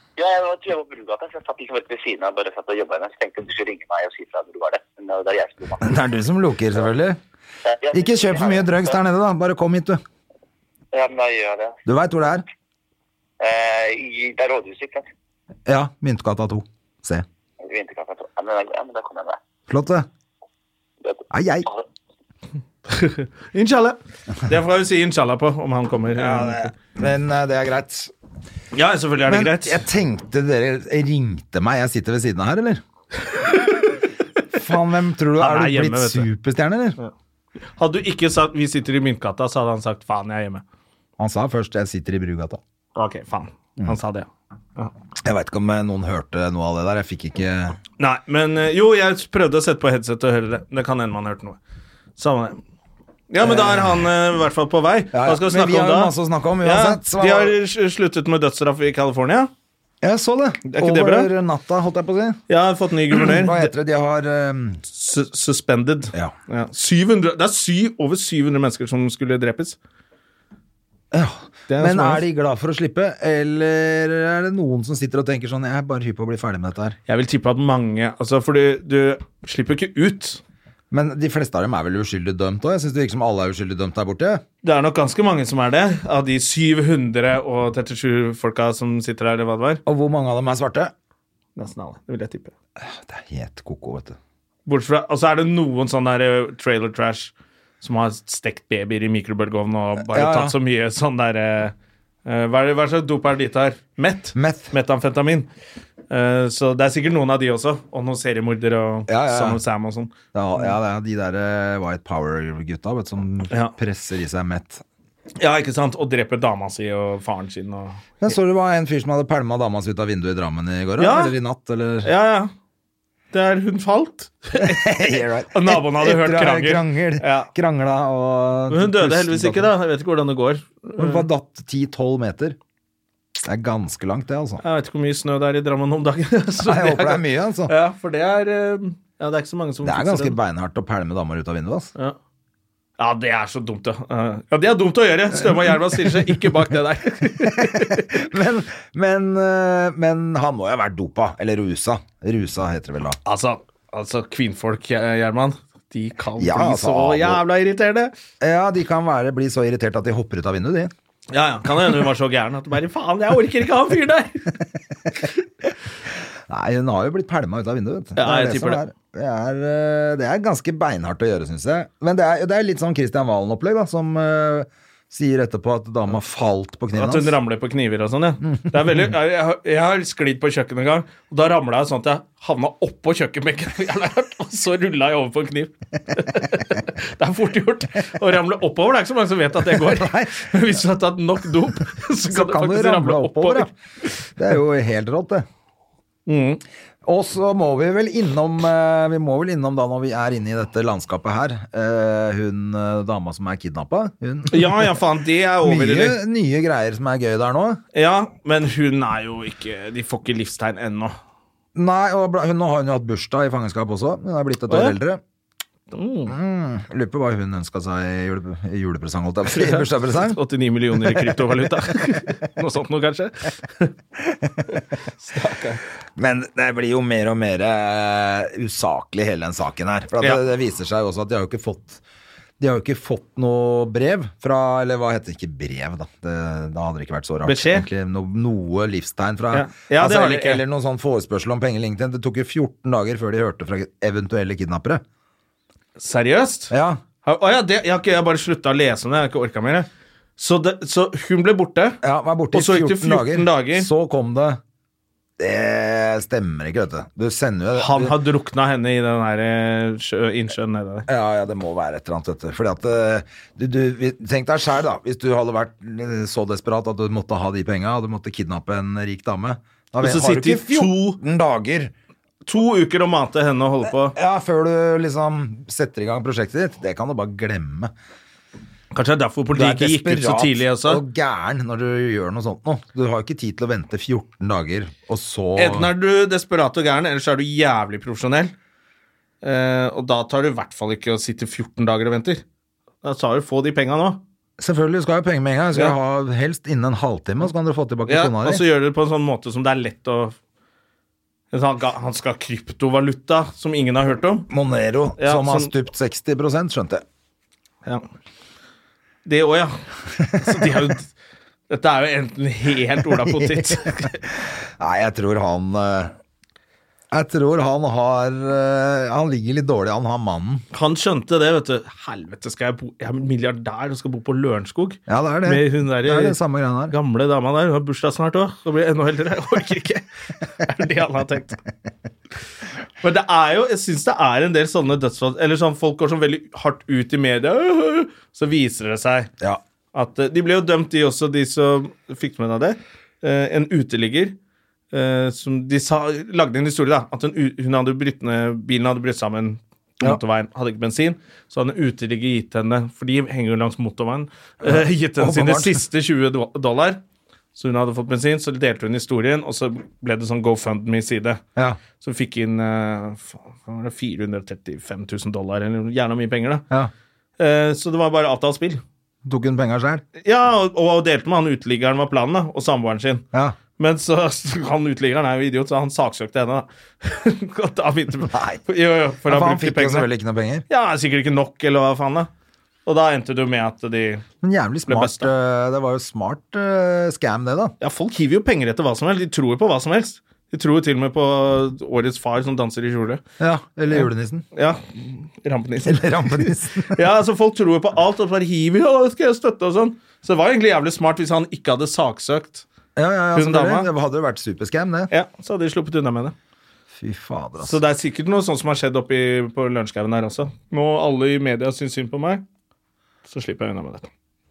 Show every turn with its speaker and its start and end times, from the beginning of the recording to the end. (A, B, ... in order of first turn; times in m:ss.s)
0:00.2-0:05.8 A
0:05.8-0:07.2 B
0:07.7-0:09.0 A
0:07.9-0:10.0 B
0:10.9-0:11.8 A
0:11.9-0:12.4 B
0:13.4-0:15.1 A
0:15.7-0:17.3 B
0:17.6-0:19.4 A
0:19.7-0:20.1 B
0:21.0-0:21.8 A
0:21.3-0:21.7 B
0:22.9-0:26.7 C
0:26.1-0:28.1 B
0:28.7-0:29.8 C
0:29.3-0:32.8 B
0:33.3-0:33.8 C
0:34.5-0:37.0 B
0:35.4-0:36.3 C
0:37.8-0:40.6 C
0:41.2-0:42.6 B
0:43.0-0:44.9 C
0:45.2-0:47.8 B
0:48.0-0:51.6 C
0:52.2-0:52.6 C
0:53.3-0:59.5 C
0:53.4-0:54.0 B
0:55.1-0:57.6 B
1:00.0-1:02.4 B
1:00.7-1:01.3 C
1:02.5-1:03.7 C
1:03.1-1:04.8 B
1:04.9-1:09.8 C
1:11.1-1:17.0 B
1:11.7-1:12.2 C
1:17.1-1:20.4 C
1:20.9-1:24.4 B
1:24.6-1:29.8 C
1:29.9-1:30.9 B
1:31.6-1:32.5 C
1:32.8-1:34.2 B
1:34.7-1:41.7 C
1:40.0-1:40.6 B
1:42.2-1:45.5 C
1:44.4-1:44.7 B
1:46.1-1:50.7 C
1:49.1-1:49.6 B
1:50.3-1:54.8 B
1:55.4-1:58.0 C
1:58.2-2:02.1 B
2:01.0-2:01.4 C
2:02.0-2:02.5 C
2:03.3-2:07.5 C
2:04.6-2:09.7 B
2:08.7-2:11.3 C
2:11.0-2:12.6 B
2:13.4-2:14.6 B
2:14.6-2:20.4 C
2:16.6-2:17.7 B
2:19.8-2:21.9 B
2:23.0-2:28.2 C
2:25.4-2:26.5 B
2:27.4-2:33.2 B
2:33.3-2:38.1 C
2:36.4-2:37.4 B
2:38.4-2:40.9 B
2:41.3-2:44.5 C
2:46.5-2:57.4 B
2:48.2-2:48.8 C
2:56.9-3:14.2 C
2:58.5-2:59.0 B
3:09.7-3:10.5 B
3:12.3-3:13.7 B
3:14.4-3:15.5 B
3:16.3-3:16.6 C
3:17.0-3:25.0 B
3:24.5-3:26.2 C
3:25.6-3:27.8 B
3:27.9-3:31.2 C
3:31.8-3:35.2 B
3:34.7-3:35.0 C
3:35.9-3:36.4 C
3:36.3-3:40.4 B
3:39.5-3:43.9 C
3:40.9-3:41.7 B
3:44.7-3:45.8 C
3:46.2-3:52.0 B
3:52.6-4:05.0 B
3:57.4-3:57.9 C
3:59.5-4:00.6 C
4:06.0-4:06.7 C
4:06.7-4:07.0 B
4:07.2-4:12.0 C
4:12.0-4:14.6 B
4:12.5-4:13.9 C
4:15.4-4:18.2 B
4:17.8-4:21.1 C
4:21.1-4:31.9 B
4:30.0-4:31.2 C
4:32.5-4:34.2 C
4:34.0-4:37.9 B
4:38.9-4:41.0 C
4:39.5-4:45.9 B
4:45.6-4:48.5 C
4:49.4-4:52.4 C
4:53.0-4:54.2 C
4:54.6-4:58.6 B
4:58.1-5:00.4 C
5:01.5-5:04.5 C
5:04.5-5:07.0 B
5:05.2-5:05.7 C
5:09.2-5:11.1 C
5:10.3-5:10.8 B
5:11.7-5:14.2 C
5:13.1-5:16.2 B
5:17.1-5:20.6 B
5:20.7-5:26.4 C
5:25.1-5:27.0 B
5:26.9-5:31.6 C
5:33.0-5:39.3 C
5:39.9-5:44.4 C
5:44.9-5:57.0 C
5:54.6-5:55.8 B
5:57.6-6:01.4 C
6:02.0-6:06.6 C
6:07.4-6:08.8 C
6:09.2-6:10.0 B
6:10.2-6:13.2 C
6:13.8-6:20.1 C
6:18.3-6:18.6 B
6:19.3-6:20.6 B
6:20.7-6:22.3 C
6:22.9-6:24.2 C
6:24.4-6:27.8 B
6:24.9-6:25.3 C
6:27.8-6:33.2 C
6:33.4-6:34.4 B
6:34.5-6:42.7 C
6:35.8-6:37.0 B
6:43.0-6:45.1 B
6:43.3-6:43.9 C
6:45.1-6:46.4 C
6:46.9-6:47.8 B
6:47.6-6:52.4 C
6:53.3-6:54.1 C